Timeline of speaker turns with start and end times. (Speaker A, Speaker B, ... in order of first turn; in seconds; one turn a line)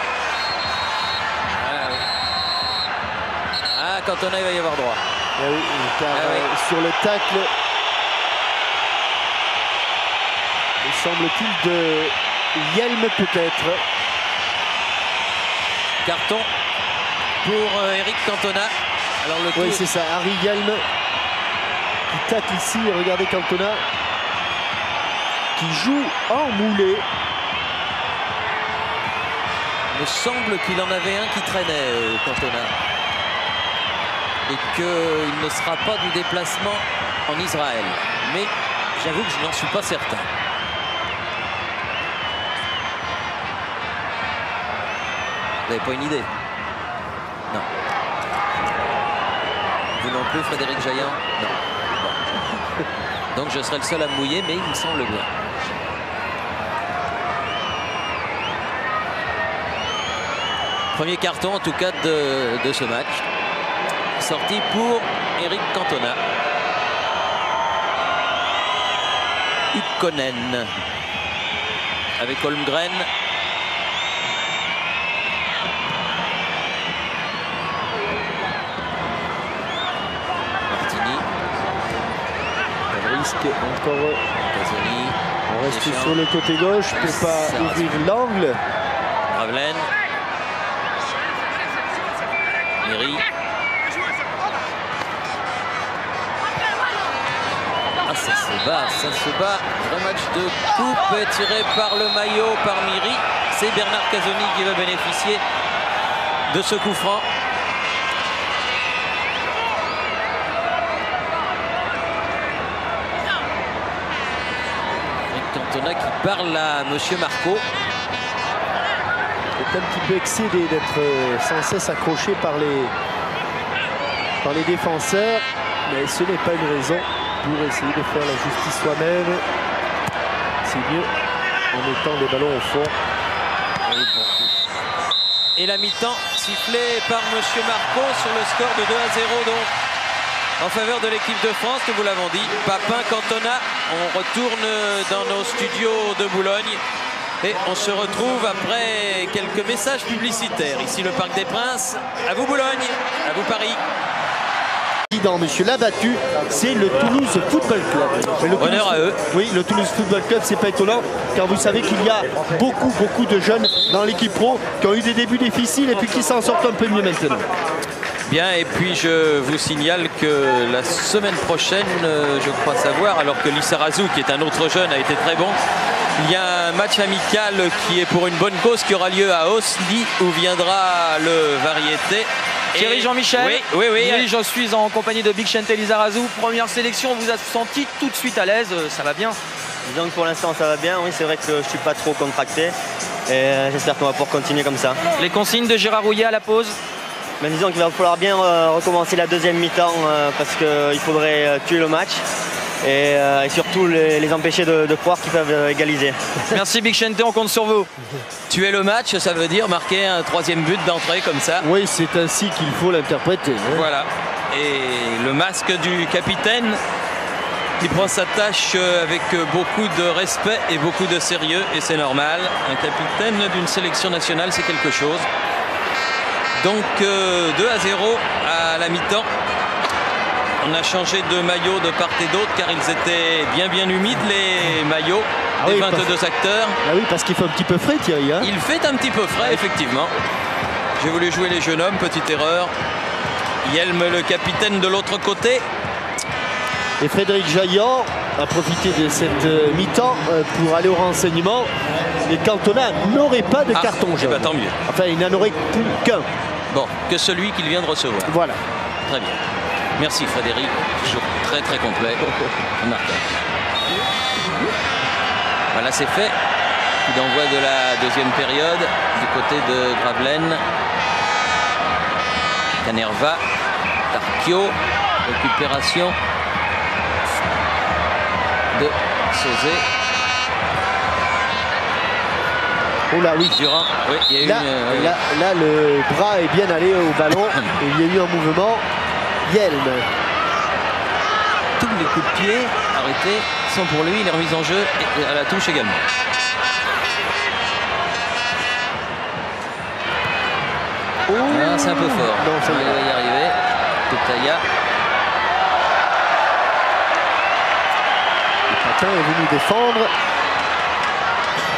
Speaker A: 1.6-2.0
Speaker A: 3.7-5.0
Speaker B: 5.4-7.5
Speaker A: 6.1-6.5
Speaker B: 10.8-13.8
Speaker A: 16.0-16.5
Speaker A: 17.4-19.8
Speaker B: 19.5-20.8
Speaker B: 22.1-23.8
Speaker B: 25.6-27.0
Speaker A: 29.9-32.7
Speaker A: 34.5-40.3
Speaker A: 45.7-46.3
Speaker A: 50.0-52.2
Speaker A: 53.3-55.3
Speaker A: 60.9-63.2
Speaker A: 64.2-66.2
Speaker A: 69.7-70.7
Speaker A: 72.2-73.1
Speaker A: 80.7-81.3
Speaker B: 82.9-84.2
Speaker A: 84.4-86.2
Speaker B: 85.5-88.6
Speaker A: 86.9-88.0
Speaker A: 89.3-89.9
Speaker A: 92.8-93.2
Speaker A: 98.0-105.4
Speaker A: 106.5-107.3
Speaker A: 115.3-117.6
Speaker B: 119.6-122.9
Speaker B: 124.4-129.4
Speaker B: 130.6-131.1
Speaker B: 131.7-132.9
Speaker A: 133.8-134.5
Speaker A: 135.6-139.7
Speaker A: 140.6-146.8
Speaker A: 147.4-153.8
Speaker B: 155.1-167.4
Speaker A: 158.5-159.2
Speaker A: 168.3-175.6
Speaker A: 176.2-184.3
Speaker C: 182.7-189.4
Speaker D: 189.8-192.7
Speaker D: 193.3-195.0
Speaker C: 195.2-196.8
Speaker D: 197.4-202.2
Speaker D: 202.8-206.3
Speaker C: 206.5-207.9
Speaker A: 208.5-211.7
Speaker B: 211.6-213.9
Speaker A: 213.7-216.8
Speaker A: 217.8-225.3
Speaker A: 226.6-229.3
Speaker A: 230.6-236.8
Speaker B: 235.6-236.1
Speaker B: 236.8-238.5
Speaker A: 238.4-240.1
Speaker A: 241.0-242.7
Speaker A: 243.6-245.6
Speaker B: 247.0-251.7
Speaker B: 252.3-256.3
Speaker A: 253.7-254.8
Speaker A: 256.7-258.4
Speaker B: 258.2-258.6
Speaker A: 259.1-259.4
Speaker A: 260.0-263.3
Speaker A: 265.7-266.4
Speaker A: 267.1-270.6
Speaker A: 272.8-273.4
Speaker A: 274.1-276.1
Speaker A: 278.7-279.8
Speaker B: 283.1-283.6
Speaker A: 283.5-285.2
Speaker B: 284.4-288.8
Speaker B: 289.5-290.1
Speaker A: 291.8-296.0
Speaker B: 301.3-303.0
Speaker A: 301.5-304.6
Speaker B: 308.7-310.1